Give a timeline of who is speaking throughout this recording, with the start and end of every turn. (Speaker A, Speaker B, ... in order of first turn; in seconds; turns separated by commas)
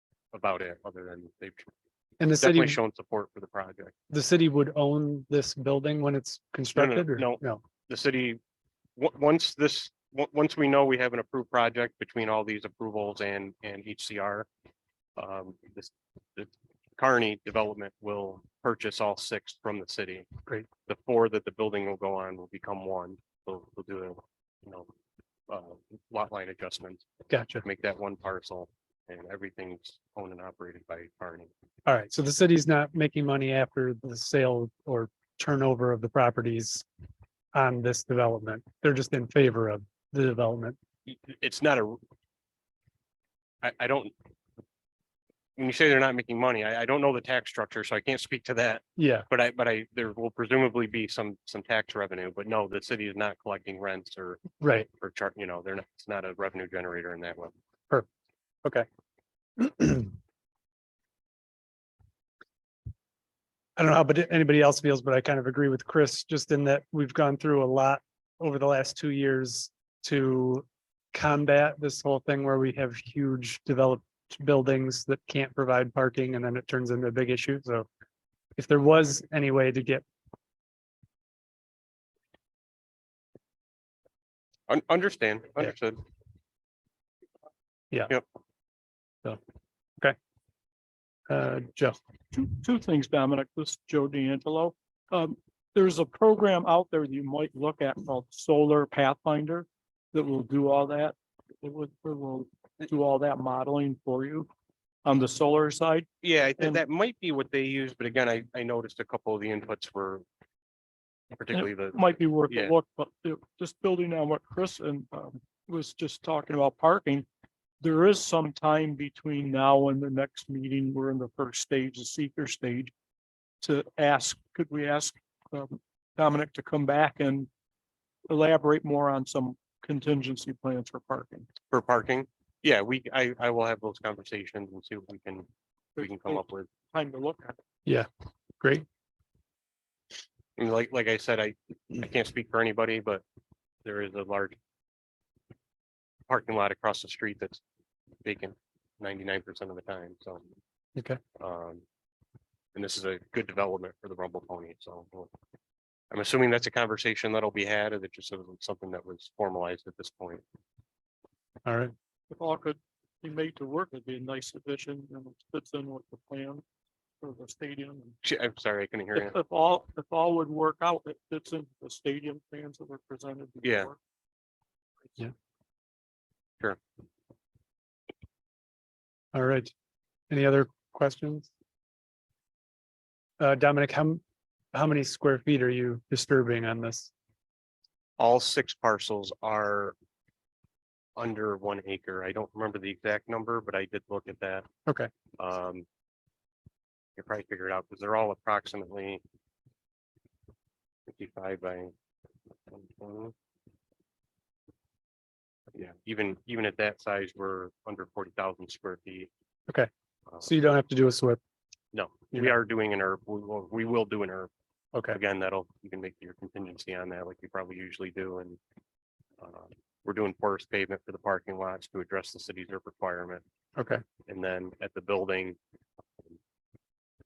Speaker A: 0.3-1.7, Speaker B: 2.2-2.8, Speaker A: 2.4-3.9, Speaker B: 4.1-7.6, Speaker A: 6.7-8.4, Speaker A: 9.0-14.4, Speaker A: 15.2-20.3, Speaker A: 20.9-24.9, Speaker A: 25.5-27.1, Speaker B: 27.3-27.6, Speaker A: 27.6-31.5, Speaker B: 31.9-36.8, Speaker B: 37.5-40.8, Speaker A: 41.1-42.0, Speaker A: 43.6-44.1, Speaker A: 45.6-54.4, Speaker B: 49.0-49.3, Speaker B: 54.6-54.9, Speaker A: 55.0-57.5, Speaker B: 59.6-60.1, Speaker B: 63.8-77.9, Speaker B: 78.6-80.0, Speaker A: 84.7-86.0, Speaker B: 87.9-88.2, Speaker B: 91.3-92.0, Speaker C: 92.3-104.5, Speaker C: 105.0-106.0, Speaker A: 106.2-110.2, Speaker A: 111.3-112.7, Speaker C: 111.5-117.2, Speaker C: 117.8-122.9, Speaker C: 123.6-127.5, Speaker C: 128.3-131.5, Speaker A: 131.7-136.7, Speaker C: 136.0-137.6, Speaker B: 138.6-138.8, Speaker A: 140.6-143.2, Speaker A: 143.8-144.6, Speaker A: 146.3-147.6, Speaker A: 148.2-150.4, Speaker A: 151.4-151.8, Speaker A: 152.7-155.3, Speaker A: 156.1-160.4, Speaker B: 161.6-161.9, Speaker C: 162.3-166.6, Speaker C: 167.2-168.2, Speaker A: 168.2-169.4, Speaker C: 169.2-174.0, Speaker A: 173.6-173.9, Speaker B: 179.3-179.7, Speaker B: 180.3-181.5, Speaker B: 183.4-184.2, Speaker B: 184.7-187.1, Speaker A: 188.2-189.9, Speaker A: 191.2-194.7, Speaker A: 195.4-195.8, Speaker A: 197.2-199.2, Speaker A: 201.1-201.9, Speaker A: 202.7-203.3, Speaker A: 205.7-209.3, Speaker B: 210.4-211.4, Speaker A: 211.9-214.5, Speaker B: 214.9-215.2, Speaker A: 215.1-218.6, Speaker A: 219.4-223.4, Speaker B: 223.8-224.0, Speaker A: 224.3-225.6